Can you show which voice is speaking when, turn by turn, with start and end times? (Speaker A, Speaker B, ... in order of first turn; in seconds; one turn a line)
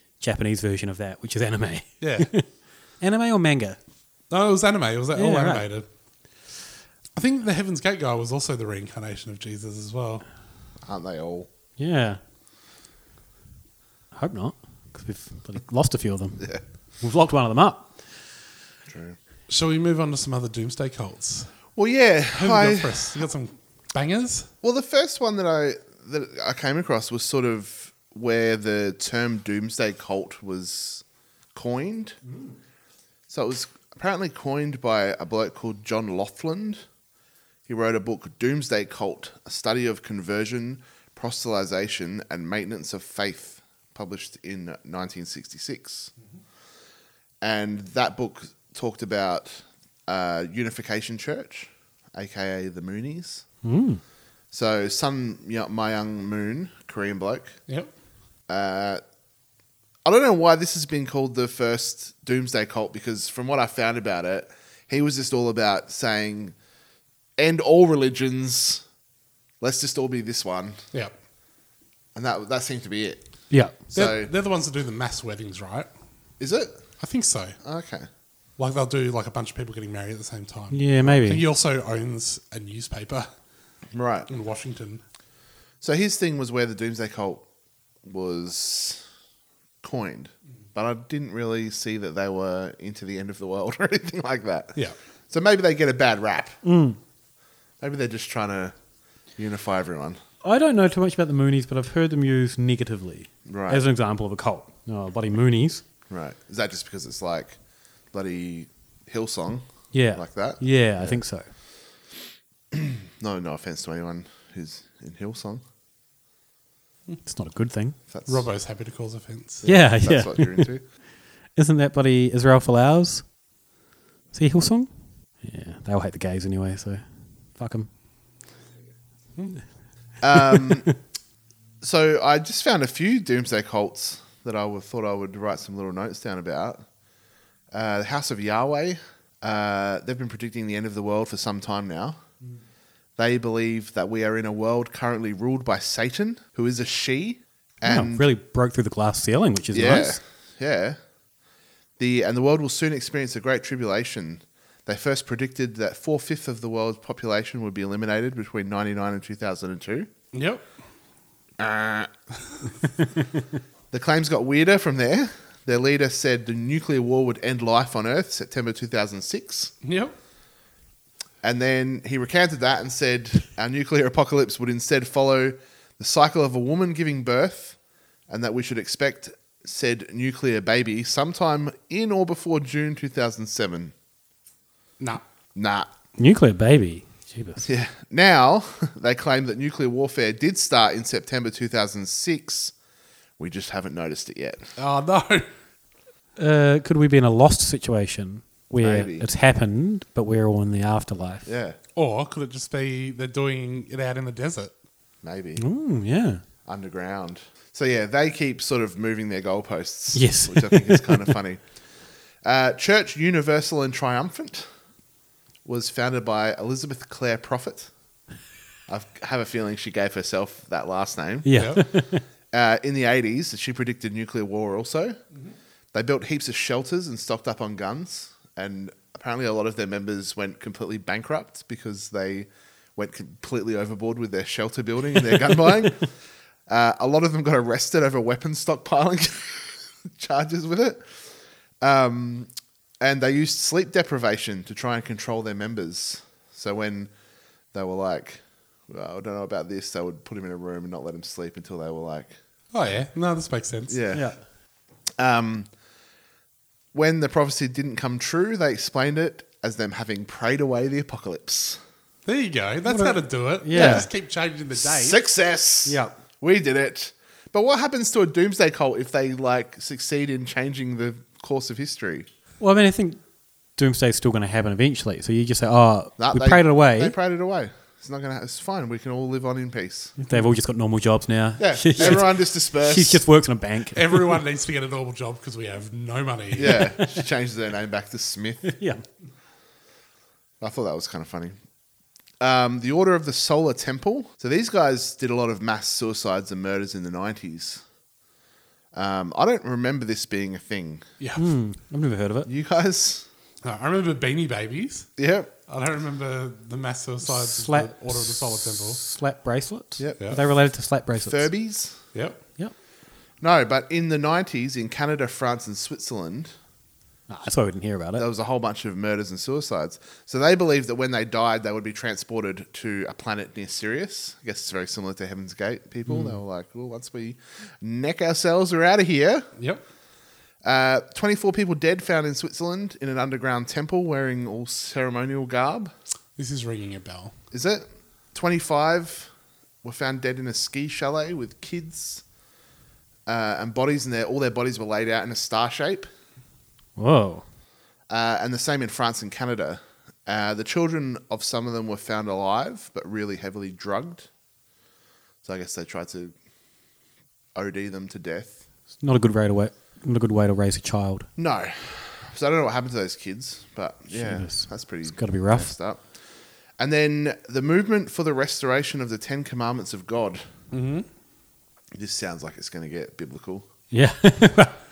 Speaker A: 0.2-2.5
Speaker B: 2.0-2.3
Speaker A: 3.0-3.8
Speaker B: 4.3-5.8
Speaker A: 5.1-5.7
Speaker B: 7.2-10.2
Speaker C: 10.8-11.5
Speaker A: 11.8-12.2
Speaker A: 14.1-17.9
Speaker C: 18.9-19.2
Speaker B: 19.5-21.5
Speaker C: 21.8-23.2
Speaker B: 22.3-24.5
Speaker C: 24.6-32.2
Speaker C: 33.3-36.8
Speaker C: 37.7-46.1
Speaker C: 47.4-53.4
Speaker A: 53.6-54.0
Speaker C: 54.5-57.6
Speaker C: 58.5-59.0
Speaker C: 60.0-66.5
Speaker C: 67.4-68.8
Speaker C: 69.6-70.8
Speaker C: 72.1-73.2
Speaker A: 73.5-73.7
Speaker C: 73.8-74.3
Speaker B: 73.9-75.9
Speaker C: 76.4-76.8
Speaker B: 77.0-77.5
Speaker C: 77.6-78.1
Speaker B: 78.6-83.3
Speaker A: 80.7-81.4
Speaker C: 83.9-84.3
Speaker B: 84.3-85.0
Speaker C: 85.8-87.5
Speaker C: 88.0-89.0
Speaker C: 89.8-96.6
Speaker A: 96.6-97.0
Speaker C: 97.8-98.7
Speaker C: 99.4-100.2
Speaker A: 100.4-105.8
Speaker C: 103.5-103.8
Speaker C: 106.1-107.6
Speaker C: 108.1-111.2
Speaker A: 109.9-111.5
Speaker C: 112.7-115.6
Speaker A: 117.2-118.0
Speaker C: 118.1-118.5
Speaker B: 118.3-119.6
Speaker C: 119.6-120.8
Speaker A: 119.6-120.8
Speaker A: 121.5-123.3
Speaker A: 124.3-127.0
Speaker A: 127.5-127.9
Speaker C: 130.2-130.9
Speaker C: 131.8-136.8
Speaker C: 137.7-142.2
Speaker C: 143.2-148.3
Speaker A: 147.8-150.2
Speaker C: 149.7-151.0
Speaker C: 152.0-160.1
Speaker B: 160.3-160.6
Speaker C: 161.6-162.1
Speaker C: 163.9-169.7
Speaker B: 169.8-170.1
Speaker C: 171.4-177.8
Speaker C: 178.3-183.9
Speaker C: 185.5-185.9
Speaker A: 186.2-187.7
Speaker C: 187.6-192.7
Speaker C: 193.4-194.6
Speaker B: 194.8-195.5
Speaker A: 196.4-201.5
Speaker C: 198.8-199.3
Speaker C: 201.4-201.8
Speaker B: 201.9-204.7
Speaker C: 205.2-205.6
Speaker A: 205.6-206.4
Speaker C: 206.6-211.6
Speaker A: 210.1-211.4
Speaker C: 212.4-214.7
Speaker C: 215.6-217.9
Speaker C: 218.9-221.6
Speaker A: 221.4-222.2
Speaker B: 221.6-221.8
Speaker C: 222.5-225.2
Speaker C: 225.9-236.1
Speaker C: 236.7-241.2
Speaker C: 241.8-242.5
Speaker C: 243.0-247.1
Speaker C: 247.7-252.4
Speaker B: 252.7-254.0
Speaker C: 253.9-254.3
Speaker A: 254.1-254.4
Speaker C: 255.2-255.7
Speaker C: 256.9-261.8
Speaker B: 262.2-265.2
Speaker A: 262.9-264.1
Speaker C: 263.7-264.1
Speaker C: 264.7-272.3
Speaker A: 265.8-266.1
Speaker A: 272.6-273.2
Speaker A: 273.8-277.1
Speaker C: 276.2-280.1
Speaker A: 280.2-284.4
Speaker C: 281.6-283.2
Speaker B: 283.9-286.8
Speaker C: 286.5-288.8
Speaker A: 286.7-287.2
Speaker A: 288.6-289.0
Speaker C: 290.6-291.6
Speaker C: 292.4-297.8
Speaker C: 298.9-301.0
Speaker B: 301.2-301.5
Speaker A: 301.4-302.5
Speaker C: 302.4-303.2
Speaker B: 303.6-305.1
Speaker C: 305.2-305.5
Speaker B: 305.7-309.0
Speaker A: 307.2-311.5
Speaker C: 310.0-310.4
Speaker C: 311.1-312.0
Speaker B: 312.1-312.4
Speaker C: 313.4-316.5
Speaker A: 317.3-318.2
Speaker C: 318.2-329.5
Speaker B: 329.6-329.8
Speaker C: 330.6-335.9
Speaker B: 336.4-337.3
Speaker C: 337.5-339.3
Speaker C: 339.8-342.2
Speaker C: 343.3-346.1
Speaker A: 347.0-347.4
Speaker C: 348.1-354.3
Speaker C: 355.4-356.3
Speaker C: 357.5-358.6
Speaker A: 359.0-361.3
Speaker C: 361.4-366.0
Speaker A: 364.1-365.7
Speaker C: 366.8-370.4
Speaker B: 370.7-371.1
Speaker C: 371.9-373.6
Speaker A: 373.9-374.8